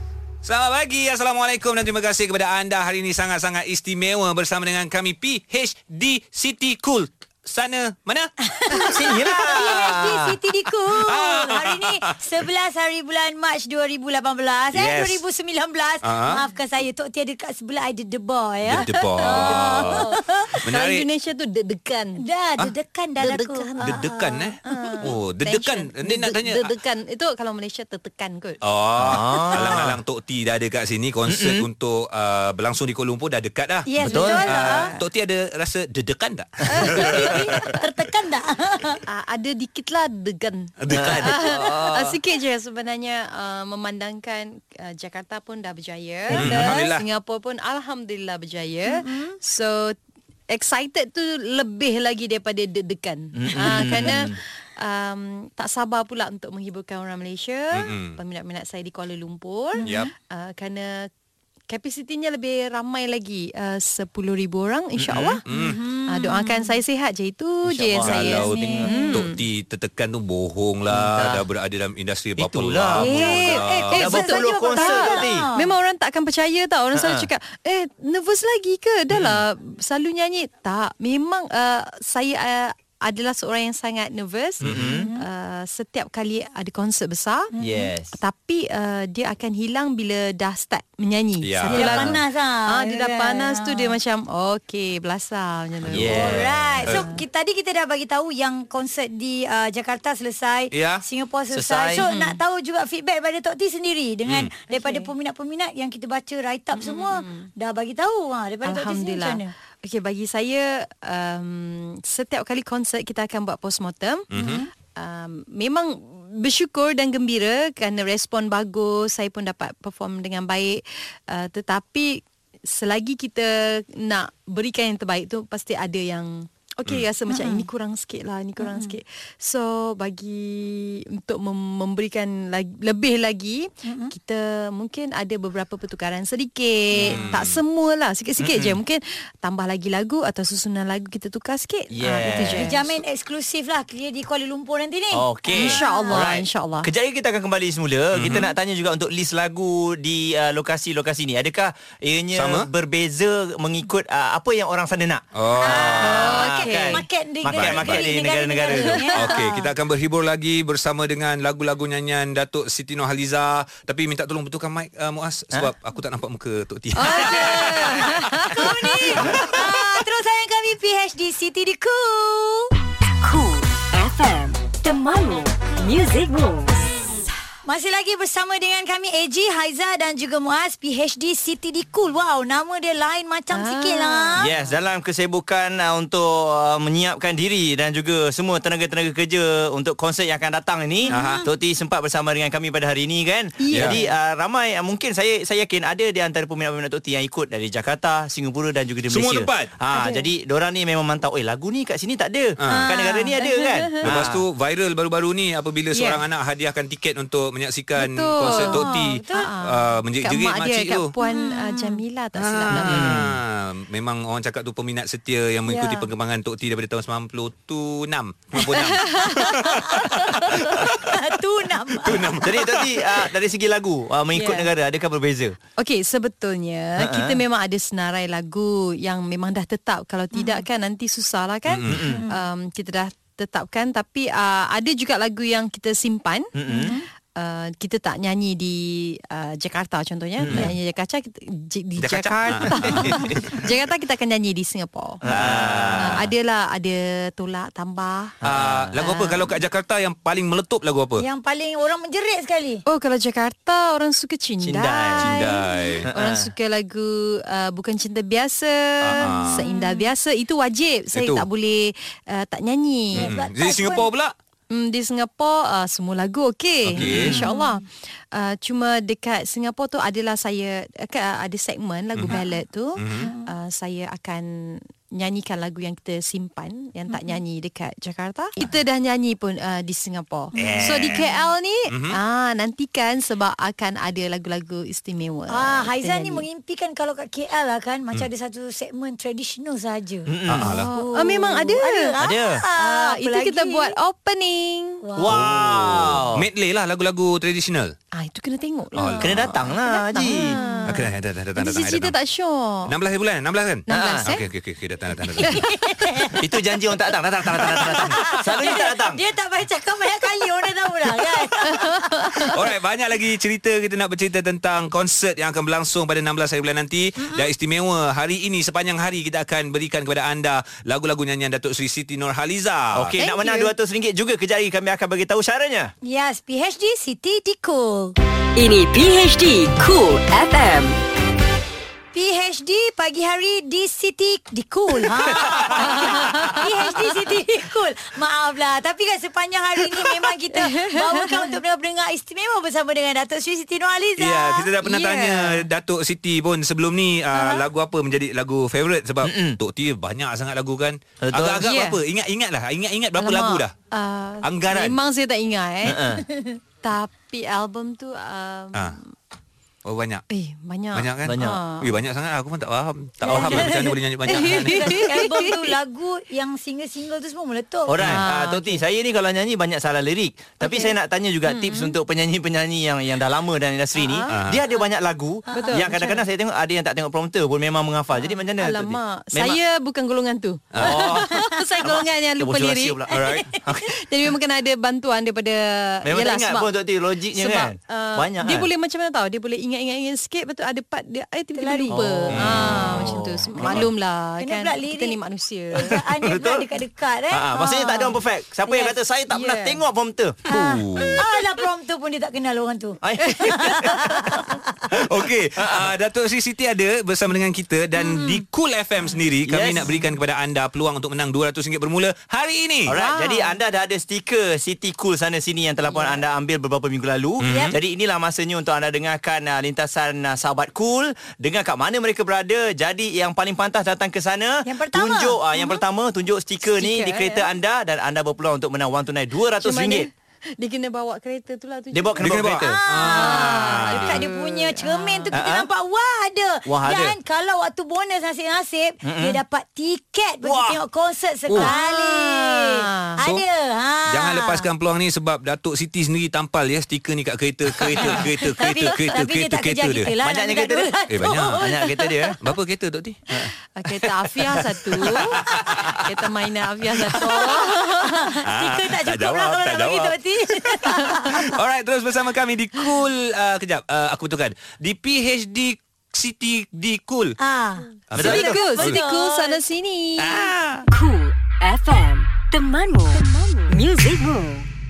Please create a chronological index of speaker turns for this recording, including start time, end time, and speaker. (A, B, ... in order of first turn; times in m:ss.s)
0:00.4-0:08.3 A
0:08.5-0:20.5 B
0:08.8-0:10.4 C
0:11.0-0:12.0 A
0:14.7-0:15.2 A
0:16.0-0:16.4 A
0:18.7-0:20.0 A
0:18.7-0:22.2 D
0:20.6-0:21.0 A
0:22.2-0:25.0 B
0:23.2-0:24.1 D
0:23.8-0:26.7 A
0:24.6-0:28.6 D
0:28.6-0:37.6 A
0:29.0-0:30.0 C
0:29.5-0:29.8 D
0:31.3-0:31.6 C
0:33.9-0:34.9 B
0:34.0-0:35.0 D
0:34.0-0:34.7 C
0:36.7-0:37.6 D
0:36.8-0:39.0 B
0:39.0-0:50.0 D
0:40.8-0:41.6 A
0:40.9-0:42.2 C
0:46.3-0:47.0 A
0:46.3-0:46.8 C
0:48.9-0:49.4 B
0:50.5-1:01.1 D
0:53.3-0:54.4 C
0:57.7-0:58.2 A
0:59.8-1:00.1 B
0:59.8-1:00.1 A
1:01.7-1:05.4 D
1:05.0-1:05.4 C
1:05.5-1:05.8 A
1:05.5-1:06.8 B
1:06.1-1:09.3 D
1:07.6-1:09.1 C
1:08.0-1:13.9 A
1:08.3-1:09.0 B
1:10.9-1:11.4 C
1:12.4-1:15.5 C
1:13.0-1:27.5 D
1:13.0-1:15.7 B
1:16.9-1:17.3 C
1:24.6-1:25.1 C
1:24.9-1:25.2 B
1:27.5-1:27.9 B
1:27.6-1:28.2 C
1:28.1-1:37.2 D
1:31.4-1:32.1 A
1:31.7-1:33.9 B
1:35.8-1:36.1 A
1:35.9-1:36.8 C
1:36.1-1:49.5 B
1:40.7-1:41.0 A
1:41.5-1:42.0 C
1:42.0-1:42.3 D
1:44.7-1:45.1 D
1:46.7-1:47.5 D
1:48.6-2:22.9 D
1:54.3-1:54.6 A
1:54.3-1:54.7 B
2:07.3-2:07.6 B
2:08.6-2:09.0 B
2:13.8-2:14.1 B
2:17.0-2:17.6 A
2:18.4-2:18.8 C
2:21.9-2:22.9 C
2:22.6-2:26.2 B
2:25.1-2:39.1 C
2:25.5-2:26.9 D
2:28.1-2:28.5 A
2:32.3-2:32.7 A
2:35.3-2:36.3 A
2:35.6-2:39.7 B
2:36.0-2:37.1 D
2:37.5-2:38.0 A
2:38.7-2:39.1 D
2:39.1-2:48.5 A
2:47.0-2:49.7 D
2:48.5-2:52.7 B
2:53.2-2:56.8 E
2:57.6-3:04.5 B
3:03.5-3:04.4 D
3:04.4-3:24.4 C
3:11.1-3:11.4 B
3:11.1-3:11.4 A
3:13.6-3:14.0 D
3:19.1-3:19.8 A
3:19.9-3:20.2 D
3:22.6-3:22.9 A
3:22.8-3:24.0 D
3:24.0-3:31.1 A
3:25.9-3:26.2 D
3:28.0-3:33.3 D
3:28.4-3:29.5 B
3:31.2-3:32.0 B
3:32.4-3:41.1 A
3:32.8-3:33.4 C
3:35.7-3:36.0 D
3:38.7-3:40.8 D
3:39.4-3:40.2 B
3:40.8-3:42.4 B
3:42.0-3:42.9 A
3:42.4-3:45.6 C
3:44.3-3:44.7 D
3:45.8-4:05.2 D
3:47.0-3:47.4 C
3:50.3-3:50.6 B
3:51.7-3:52.0 A
3:51.9-3:52.2 C
3:52.1-3:52.4 B
3:56.6-3:56.9 C
3:56.7-3:57.0 B
4:00.4-4:00.7 C
4:02.0-4:03.6 A
4:02.9-4:03.4 C
4:05.2-4:06.3 C
4:05.3-4:06.3 A
4:06.0-4:08.4 D
4:08.4-4:09.4 C
4:08.4-4:11.2 A
4:11.2-4:12.8 B
4:12.8-4:15.3 D
4:14.6-4:15.4 C
4:15.3-4:16.1 A
4:15.4-4:15.9 B
4:16.0-4:16.5 C
4:16.1-4:23.3 D
4:19.0-4:19.6 A
4:19.5-4:20.1 B
4:21.1-4:21.4 A
4:23.2-4:24.1 B
4:23.2-4:24.3 A
4:24.7-4:46.4 D
4:26.9-4:27.4 A
4:27.0-4:27.4 C
4:27.3-4:27.7 B
4:32.1-4:32.4 A
4:33.0-4:33.3 A
4:33.2-4:33.5 B
4:37.1-4:37.4 B
4:40.5-4:41.4 B
4:40.6-4:41.2 A
4:41.9-4:42.2 A
4:45.5-4:50.3 B
4:50.3-4:50.8 C
4:50.5-4:50.9 A
4:50.6-4:52.2 D
4:50.9-4:53.9 B
4:52.2-4:52.6 C
4:52.7-4:55.0 D
4:55.0-4:55.3 B
4:55.2-4:56.5 C
4:55.3-4:57.9 A
4:58.1-5:01.0 D
4:59.0-4:59.5 A
4:59.2-5:00.6 C
5:00.3-5:00.9 B
5:00.9-5:02.2 A
5:01.6-5:02.9 D
5:02.9-5:05.6 A
5:03.9-5:04.4 D
5:03.9-5:04.3 C
5:05.4-5:06.4 B
5:05.4-5:06.3 D
5:06.4-5:09.2 C
5:07.6-5:08.0 A
5:07.9-5:12.4 B
5:11.6-5:12.5 D
5:12.5-5:23.1 A
5:17.2-5:17.5 B
5:22.9-5:25.9 C
5:23.2-5:23.7 D
5:26.0-5:28.2 B
5:28.5-5:31.0 E
5:32.1-5:44.7 B
5:35.8-5:37.0 D
5:40.5-5:41.6 D
5:44.2-5:53.7 A
5:44.8-5:45.6 D
5:49.2-5:49.6 C
5:51.2-5:51.8 C
5:51.6-5:52.0 D
5:53.2-5:56.2 D
5:54.4-5:55.0 A
5:55.8-5:56.2 C
5:56.8-5:59.1 D
5:59.8-6:00.2 A
6:00.3-6:01.9 D
6:00.9-6:05.1 A
6:01.2-6:01.6 C
6:03.2-6:03.7 C
6:03.3-6:03.8 B
6:03.3-6:03.6 D
6:04.2-6:05.7 D
6:04.4-6:08.0 B
6:07.9-6:19.6 C
6:08.0-6:08.8 D
6:10.6-6:10.9 D
6:11.4-6:11.9 D
6:14.0-6:14.3 D
6:14.3-6:14.6 A
6:15.5-6:15.8 B
6:15.5-6:16.2 D
6:18.2-6:23.0 D
6:20.7-6:21.1 A
6:20.8-6:23.9 C
6:23.1-6:23.4 A
6:23.8-6:26.7 D
6:26.0-6:28.7 C
6:27.3-6:36.0 D
6:31.5-6:32.0 B
6:31.9-6:33.9 C
6:32.3-6:32.9 A
6:34.4-6:35.2 B
6:35.7-6:38.2 B
6:35.9-6:36.6 C
6:37.3-6:40.4 C
6:39.3-6:39.8 D
6:40.5-6:41.2 A
6:40.5-6:44.7 B
6:43.0-6:43.9 C
6:43.7-6:44.2 D
6:44.9-6:45.9 C
6:44.9-6:53.0 A
6:49.5-6:50.0 C
6:52.8-7:10.1 C
6:52.9-6:53.5 D
6:57.4-6:57.8 A
6:57.5-6:57.7 B
7:04.6-7:05.4 B
7:06.6-7:07.5 D
7:09.6-7:12.3 D
7:11.9-7:12.8 C
7:12.2-7:14.2 A
7:12.6-7:24.6 B
7:13.0-7:15.3 D
7:15.3-7:15.7 C
7:16.6-7:17.2 C
7:19.0-7:19.4 C
7:20.4-7:20.8 C
7:21.6-7:23.2 D
7:24.1-7:30.1 A
7:27.8-7:28.3 C
7:28.6-7:32.0 B
7:30.2-7:30.9 C
7:31.1-7:31.6 A
7:31.6-7:32.4 C
7:32.4-7:33.2 A
7:33.7-7:38.3 D
7:35.7-7:36.0 C
7:37.2-7:41.5 B
7:38.4-7:40.2 A
7:41.3-7:47.4 A
7:47.4-7:49.6 B
7:48.1-7:49.0 A
7:48.1-7:48.6 C
7:48.2-7:50.5 D
7:50.2-7:50.5 A
7:50.4-7:50.8 C
7:50.9-7:54.7 E